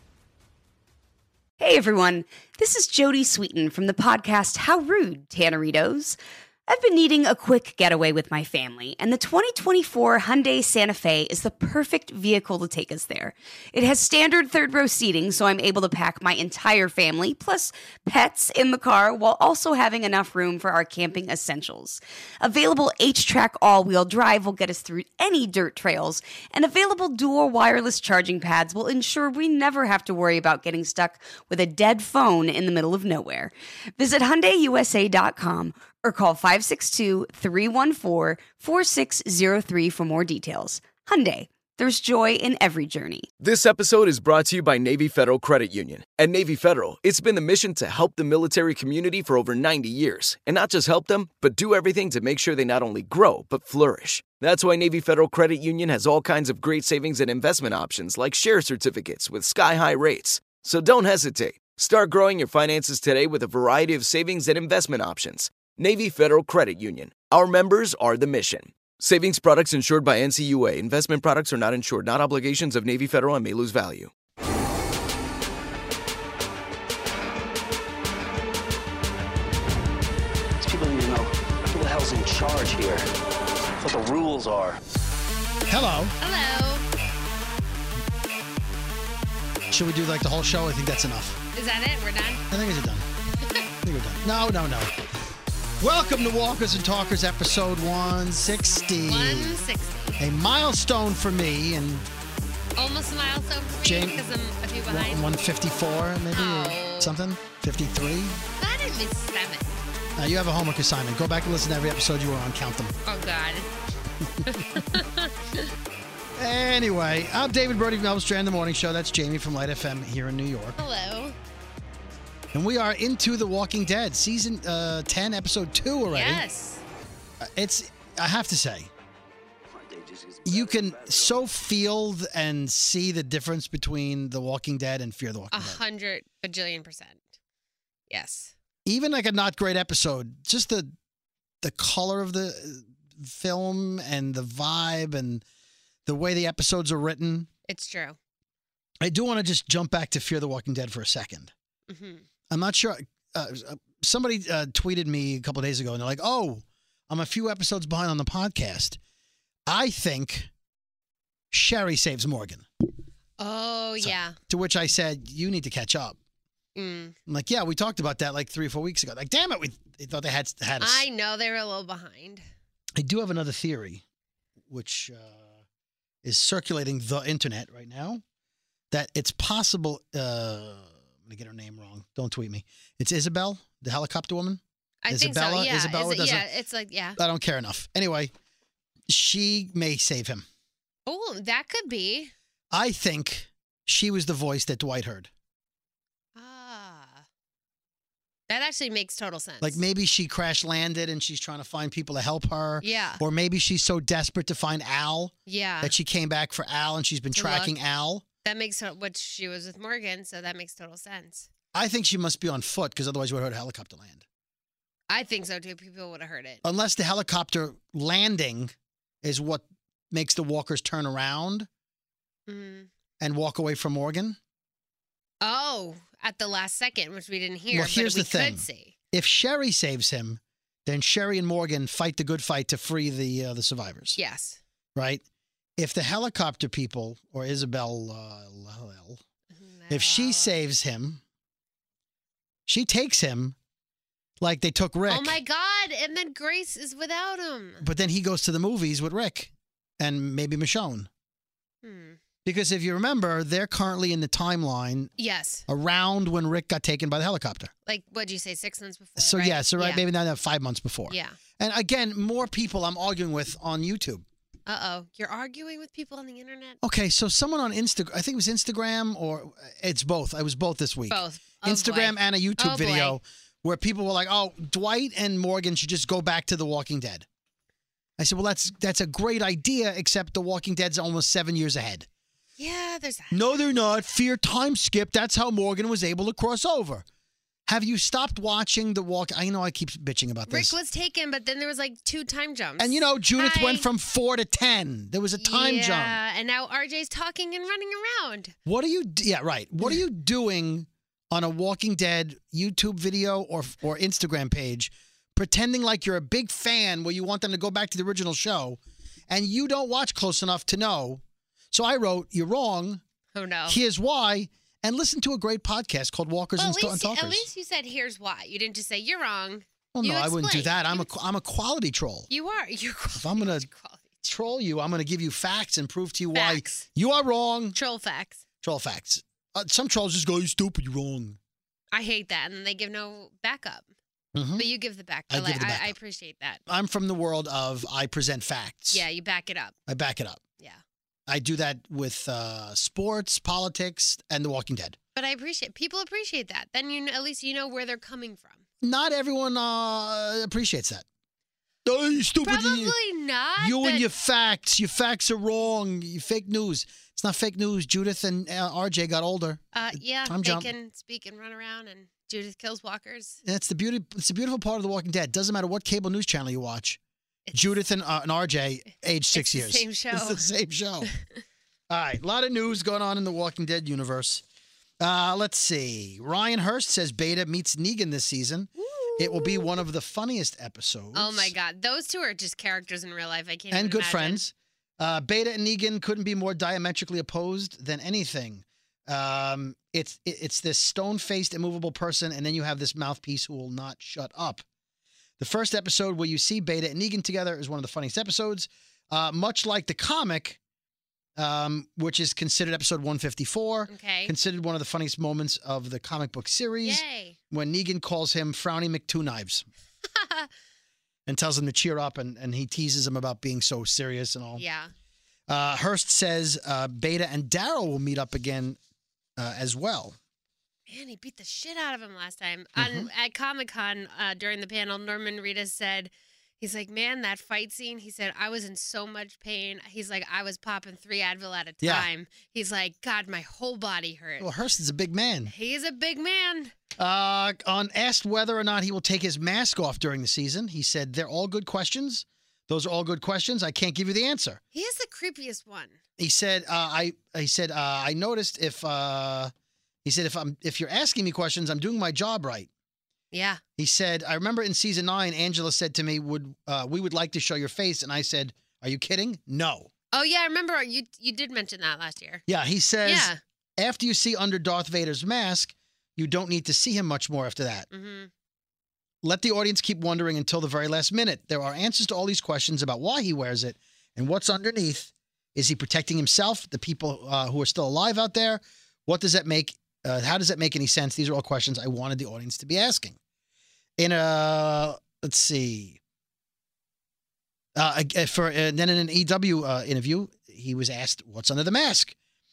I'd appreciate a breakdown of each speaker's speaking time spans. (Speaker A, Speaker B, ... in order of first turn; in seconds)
Speaker A: 1.6-43.3
Speaker B: 43.4-74.1
Speaker C: 80.6-83.1, 83.8-84.8, 129.7-131.5
Speaker D: 85.7-86.2, 89.7-91.4, 92.5-93.1, 93.8-94.9, 95.8-99.6, 100.2-102.1, 103.8-104.2, 104.9-108.4, 110.2-113.0, 116.4-120.8, 122.5-126.4, 127.4-128.9, 130.4-135.8, 138.9-140.9, 141.6-145.4, 146.1-147.5, 149.0-151.5, 152.5-159.0, 159.7-160.5, 161.5-162.7, 164.0-166.2, 167.3-171.1, 173.0-174.0, 174.7-175.6, 176.2-178.2, 178.9-186.4, 187.2-188.3, 189.1-190.4, 192.7-195.3, 199.6-208.2, 211.7-214.2, 216.6-221.7, 223.2-224.4, 227.7-234.2, 235.0-235.2, 235.8-239.2, 239.9-241.2, 242.7-243.6, 244.4-245.4, 247.8-251.1, 252.4-255.1, 255.7-257.7, 259.2-264.2, 266.8-277.3, 278.2-282.1, 283.3-287.1, 287.7-290.7, 292.8-296.2, 298.7-313.0, 313.7-317.5, 319.9-322.3, 323.1-323.7, 324.2-327.8, 328.6-331.4, 334.4-334.7, 335.3-335.9, 336.7-339.1, 339.9-340.4, 341.3-345.0, 348.8-351.1, 351.9-353.0, 353.6-359.6, 360.2-360.7, 363.4-367.0, 367.5-371.1, 371.9-374.4, 375.0-381.5, 383.7-394.6, 395.4-400.6, 401.4-409.7, 411.3-414.6, 415.5-418.8, 419.4-420.2, 422.8-423.1, 431.8-432.1, 434.4-435.5, 437.0-444.6, 446.2-449.5, 450.1-452.7, 453.8-459.9, 462.5-467.9, 469.2-483.2, 484.0-486.0, 487.8-492.1
Speaker E: 86.2-86.8, 91.5-92.4, 99.1-100.2, 102.8-105.3, 106.3-107.2, 108.6-109.8, 113.1-113.7, 114.5-115.7, 120.8-121.4, 126.1-126.8, 135.5-137.2, 138.1-138.5, 147.7-148.2, 151.9-152.2, 163.4-164.4, 166.8-167.2, 170.8-172.4, 185.1-187.2, 191.1-192.3, 196.4-197.2, 198.5-199.8, 202.8-203.2, 205.5-205.9, 207.4-207.7, 208.4-211.5, 215.1-216.6, 222.5-222.9, 225.4-228.9, 234.2-234.6, 239.6-240.5, 245.1-247.8, 251.8-252.2, 255.2-255.6, 257.9-260.0, 261.1-261.4, 264.7-266.8, 271.1-273.2, 282.6-283.5, 290.5-293.9, 295.4-298.5, 313.4-313.8, 316.6-321.1, 322.3-324.2, 326.3-326.9, 327.8-328.4, 331.9-333.9, 334.6-336.6, 338.9-339.8, 345.1-348.6, 352.4-354.1, 359.7-363.4, 367.5-367.8, 369.3-370.4, 378.9-379.8, 381.1-384.4, 403.9-404.3, 406.8-407.4, 410.1-410.5, 414.6-414.9, 420.9-434.6, 435.5-436.7, 444.7-446.0, 453.3-453.6, 460.1-462.4, 463.0-463.4, 467.9-468.3